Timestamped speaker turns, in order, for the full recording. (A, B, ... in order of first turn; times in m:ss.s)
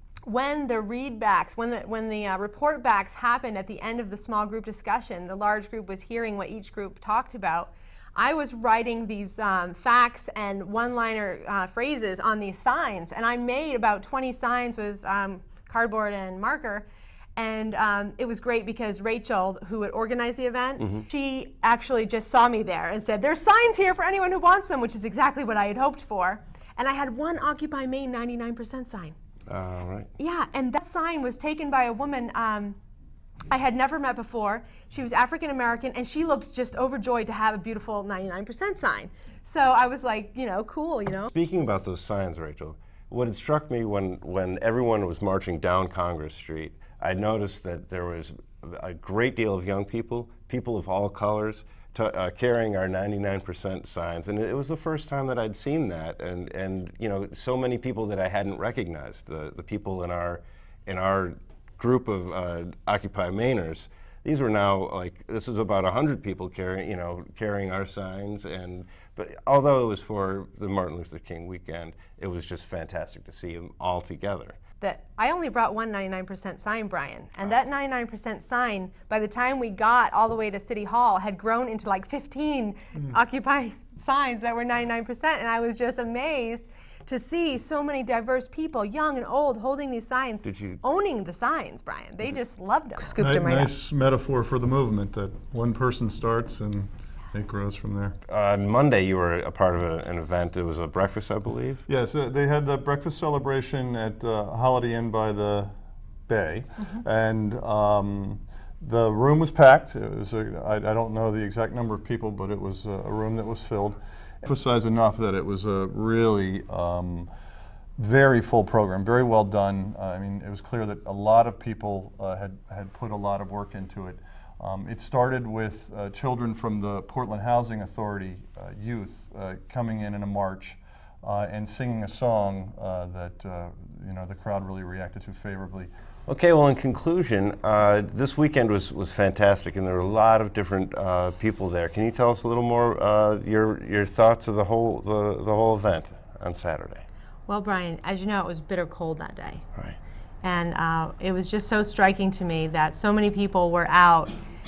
0:00.3-0:29.2 A
0:29.5-0:30.1 B
0:30.2-0:32.8 A
0:33.5-0:41.3 A
0:41.3-1:14.6 B
1:14.8-1:33.7 A
1:30.4-1:30.8 B
1:33.2-1:38.2 C
1:38.3-1:41.8 B
1:41.9-1:45.7 C
1:46.3-1:57.3 C
1:58.0-2:15.9 C
2:16.3-2:27.0 B
2:27.5-2:29.7 A
2:30.4-2:34.3 A